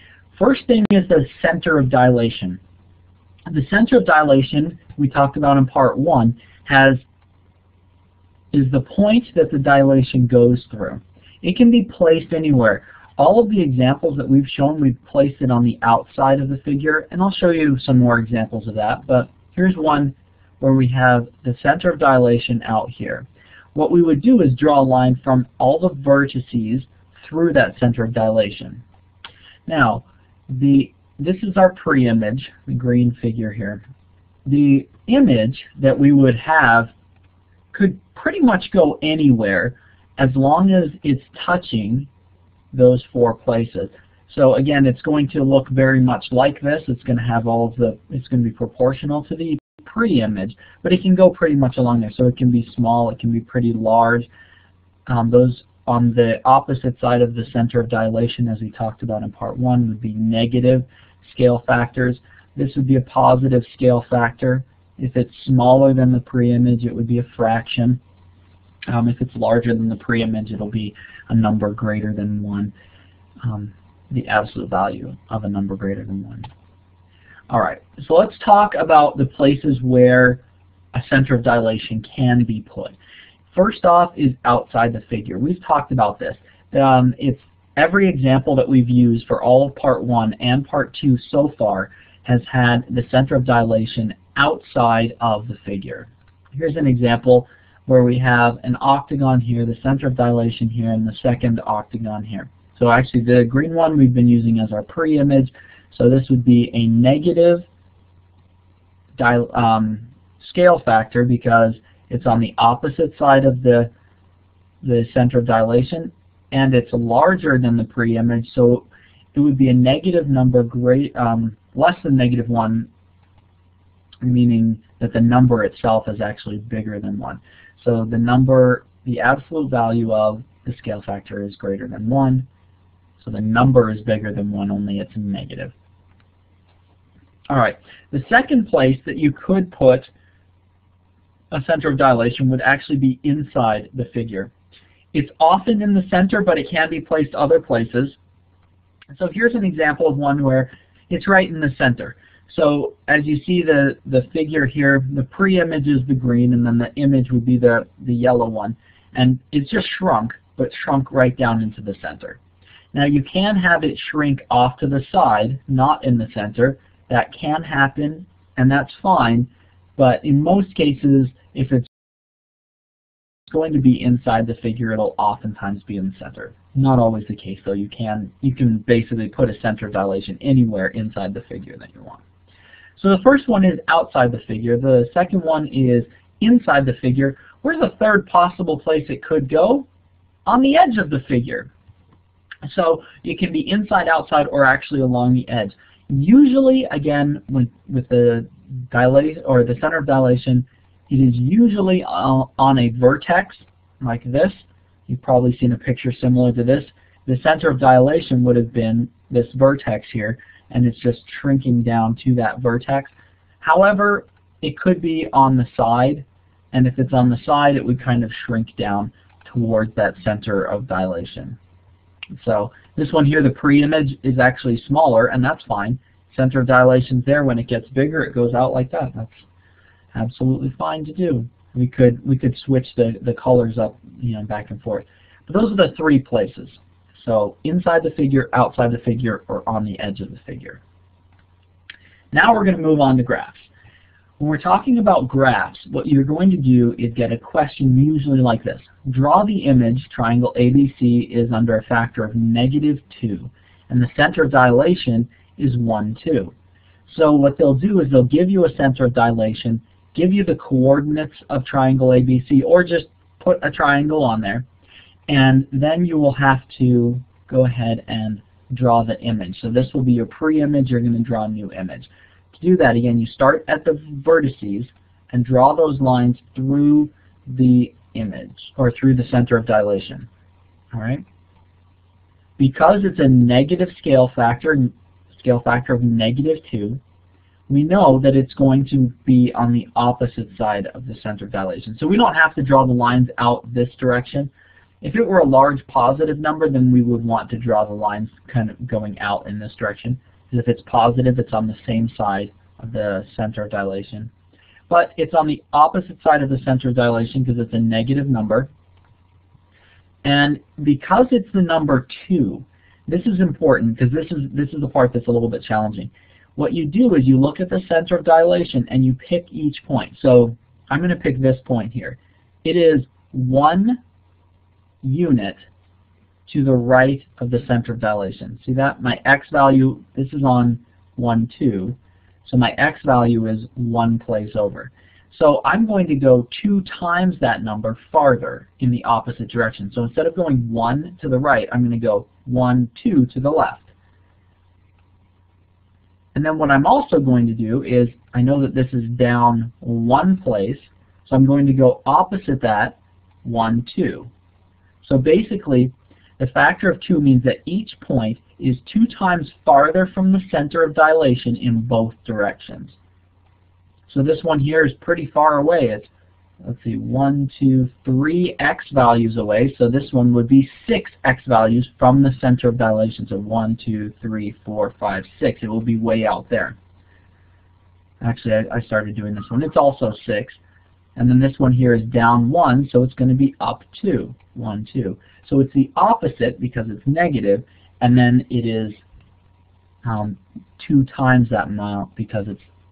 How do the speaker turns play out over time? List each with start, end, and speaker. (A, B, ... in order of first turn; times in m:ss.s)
0:00.3-0:02.6 A
0:03.5-0:07.0 A
0:08.5-0:28.8 A
0:29.7-0:33.8 A
0:34.5-0:36.9 A
0:37.7-0:42.1 A
0:42.7-0:54.3 A
0:55.1-1:08.0 A
1:08.9-1:12.7 A
1:13.4-1:16.5 A
1:17.5-1:20.4 A
1:20.9-1:23.0 A
1:23.5-1:47.7 A
1:49.2-1:53.9 A
1:54.8-2:02.9 A
2:04.2-2:12.5 A
2:13.2-2:15.7 A
2:17.5-2:20.1 A
2:21.5-2:24.5 A
2:25.1-2:28.2 A
2:29.1-2:42.4 A
2:42.9-2:51.9 A
2:53.5-3:02.2 A
3:03.0-3:09.9 A
3:10.5-3:11.7 A
3:12.6-3:41.6 A
3:42.3-3:49.5 A
3:50.1-4:00.8 A
4:02.3-4:03.7 A
4:04.4-4:16.5 A
4:17.1-4:24.6 A
4:25.3-4:40.3 A
4:40.9-4:41.2 A
4:42.6-4:47.0 A
4:47.7-5:04.3 A
5:04.9-5:08.7 A
5:10.2-5:24.0 A
5:25.0-5:25.6 A
5:26.5-5:43.9 A
5:46.3-5:54.3 A
5:55.0-6:03.0 A
6:04.1-6:06.1 A
6:06.6-6:16.8 A
6:18.2-6:20.6 A
6:21.2-6:29.0 A
6:30.0-6:32.7 A